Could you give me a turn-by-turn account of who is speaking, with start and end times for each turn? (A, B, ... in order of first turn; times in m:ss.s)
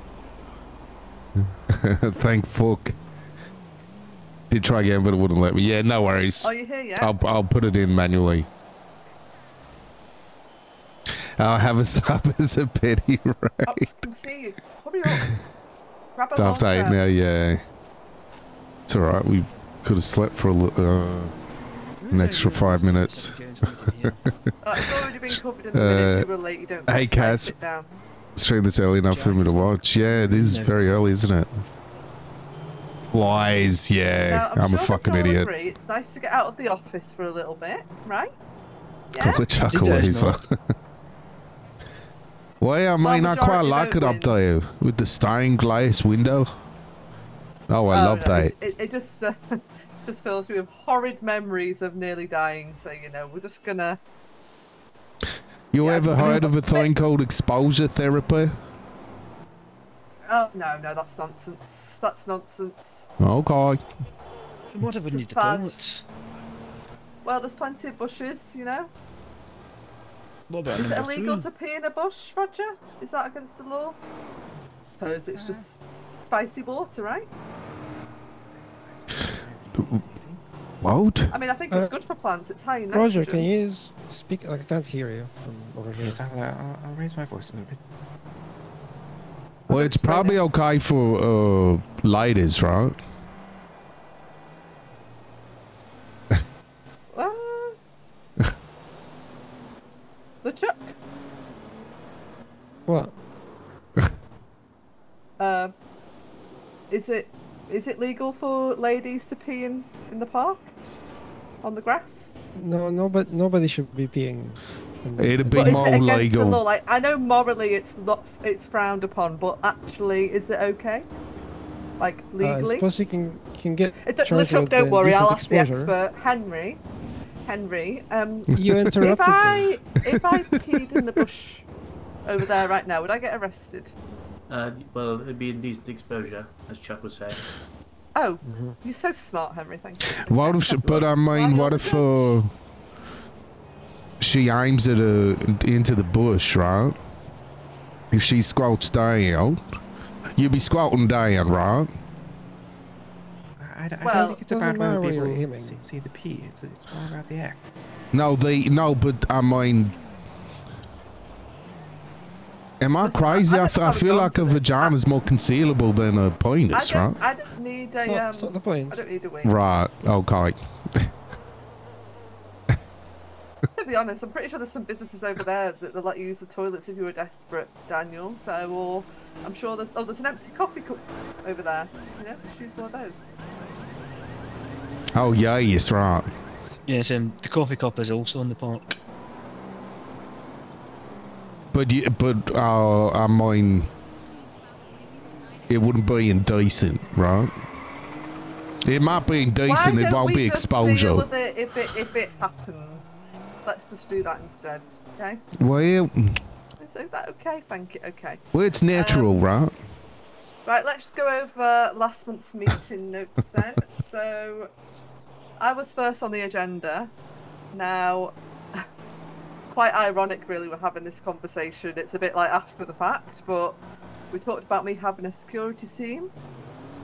0:01.7-0:03.0 A
0:04.5-0:08.5 A
0:06.4-0:07.1 B
0:11.4-0:13.9 A
0:13.6-0:15.4 B
0:16.1-0:17.0 B
0:16.4-0:17.6 A
0:18.9-0:21.3 A
0:22.0-0:24.3 C
0:22.1-0:23.4 A
0:24.6-0:28.0 B
0:25.7-0:26.2 A
0:26.9-0:27.5 A
0:28.4-0:31.6 A
0:29.1-0:30.8 C
0:33.1-0:35.5 A
0:34.2-0:38.3 B
0:39.1-0:39.5 B
0:39.2-0:40.4 A
0:39.7-0:40.4 C
0:42.6-0:46.5 A
0:42.9-0:44.5 B
0:47.7-0:48.5 A
0:47.9-0:54.0 B
0:55.7-0:58.5 A
0:55.8-0:56.9 B
1:00.3-1:03.1 B
1:03.2-1:03.8 A
1:04.7-1:06.0 C
1:05.0-1:05.8 B
1:07.2-1:08.9 B
1:10.5-1:11.5 C
1:10.7-1:14.0 B
1:15.0-1:17.3 B
1:15.3-1:15.6 D
1:18.5-1:20.4 D
1:20.8-1:21.3 A
1:21.3-1:23.5 B
1:22.9-1:26.2 E
1:26.0-1:27.8 D
1:29.7-1:30.4 B
1:29.7-1:33.0 A
1:37.1-1:37.8 B
1:40.4-1:40.9 B
1:42.9-1:43.1 E
1:45.4-1:45.7 B
1:46.9-1:50.7 B
1:51.6-1:52.3 B
1:52.5-1:55.9 E
1:55.2-1:56.6 A
1:55.5-2:01.1 B
2:02.0-2:02.9 B
2:02.4-2:05.9 E
2:04.0-2:06.8 B
2:07.4-2:11.7 B
2:08.5-2:09.8 E
2:12.2-2:13.9 B
2:14.5-2:17.4 F
2:18.1-2:22.4 B
2:18.4-2:18.8 E
2:20.2-2:22.5 A
2:24.2-2:27.0 A
2:28.1-2:29.6 A
2:30.4-2:31.9 A
2:33.6-2:37.6 D
2:34.0-2:34.4 B
2:34.4-2:35.8 E
2:38.1-2:40.0 A
2:42.8-2:47.2 A
2:43.0-2:45.0 B
2:46.7-2:49.5 B
2:48.0-2:49.0 E
2:49.4-2:51.1 A
2:53.8-3:03.3 B
3:05.1-3:06.3 A
3:06.9-3:09.0 C
3:11.7-3:13.9 A
3:15.7-3:17.5 A
3:18.8-3:21.3 A
3:19.6-3:25.4 B
3:25.6-3:26.4 A
3:26.8-3:29.4 B
3:28.5-3:29.7 A
3:30.6-3:34.7 B
3:35.6-3:37.1 B
3:37.7-3:38.8 B
3:39.7-3:43.8 B
3:44.3-3:46.3 B